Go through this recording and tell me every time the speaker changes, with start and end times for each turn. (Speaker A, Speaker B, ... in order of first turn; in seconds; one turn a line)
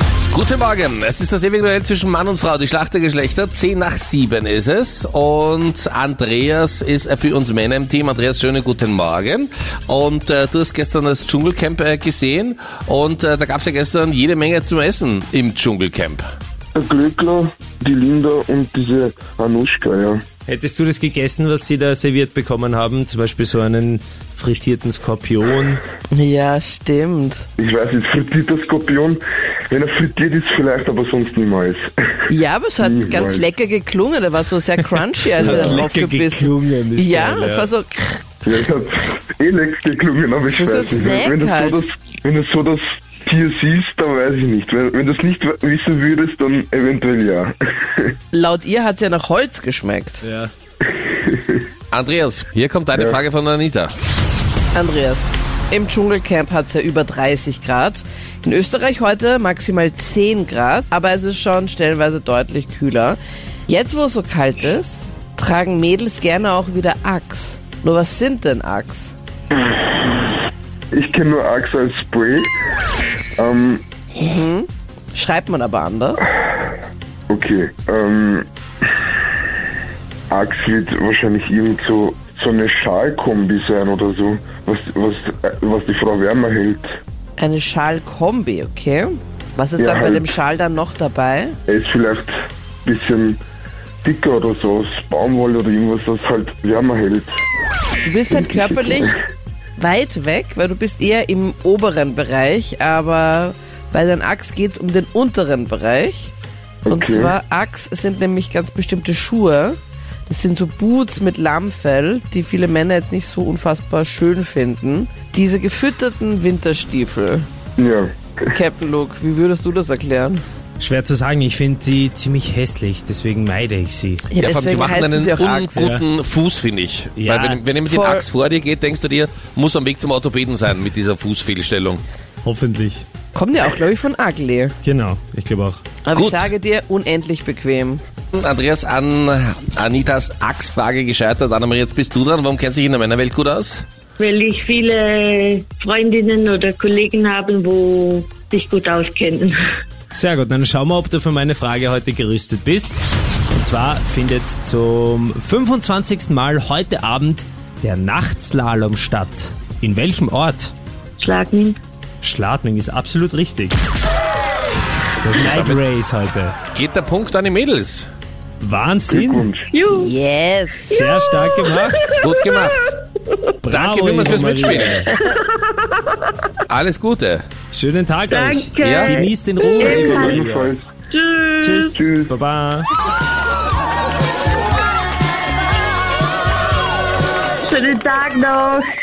Speaker A: 0.3-16.2
Speaker B: 16.7-20.2
Speaker C: 20.5-25.8
Speaker D: 26.1-27.5
Speaker B: 27.6-32.1
Speaker D: 32.3-38.3
Speaker B: 32.8-33.5
Speaker C: 35.4-37.7
Speaker B: 35.4-35.8
Speaker B: 38.4-48.1
Speaker D: 40.5-41.8
Speaker D: 48.3-50.2
Speaker C: 50.2-50.5
Speaker B: 50.9-51.7
Speaker A: 51.9-54.0
Speaker B: 52.9-53.2
Speaker D: 54.7-69.2
Speaker B: 70.9-72.5
Speaker B: 73.4-73.8
Speaker D: 74.2-76.3
Speaker B: 77.3-78.5
Speaker B: 80.3-87.0
Speaker D: 87.4-91.6
Speaker B: 89.8-90.2
Speaker B: 91.7-93.4
Speaker B: 94.0-97.4
Speaker D: 98.0-99.1
Speaker B: 98.3-99.1
Speaker D: 99.8-106.3
Speaker B: 106.8-107.3
Speaker D: 106.9-109.8
Speaker D: 110.3-117.5
Speaker B: 117.8-118.6
Speaker D: 118.5-120.4
Speaker C: 120.8-124.3
Speaker D: 124.3-126.0
Speaker A: 124.3-132.0
Speaker C: 125.8-126.0
Speaker C: 127.2-127.6
Speaker D: 127.8-128.2
Speaker C: 132.4-133.0
Speaker D: 133.3-134.8
Speaker C: 134.8-135.8
Speaker D: 136.0-138.0
Speaker A: 136.1-136.5
Speaker A: 138.3-143.8
Speaker E: 144.2-149.5
Speaker C: 150.1-153.0
Speaker C: 153.5-160.7
Speaker E: 161.2-161.8
Speaker C: 162.2-163.8
Speaker C: 165.2-166.6
Speaker A: 165.3-165.9
Speaker A: 166.7-168.1
Speaker C: 168.6-169.5
Speaker B: 169.1-169.7
Speaker D: 169.9-170.9
Speaker C: 170.9-172.1
Speaker A: 172.2-172.9
Speaker C: 173.6-175.1
Speaker A: 173.7-175.1
Speaker A: 176.7-177.4
Speaker C: 177.7-180.7
Speaker E: 178.3-179.2
Speaker A: 178.8-179.2
Speaker E: 179.8-180.4
Speaker B: 179.8-180.9
Speaker E: 181.1-181.8
Speaker C: 181.6-182.9
Speaker B: 181.9-182.3
Speaker E: 187.7-188.8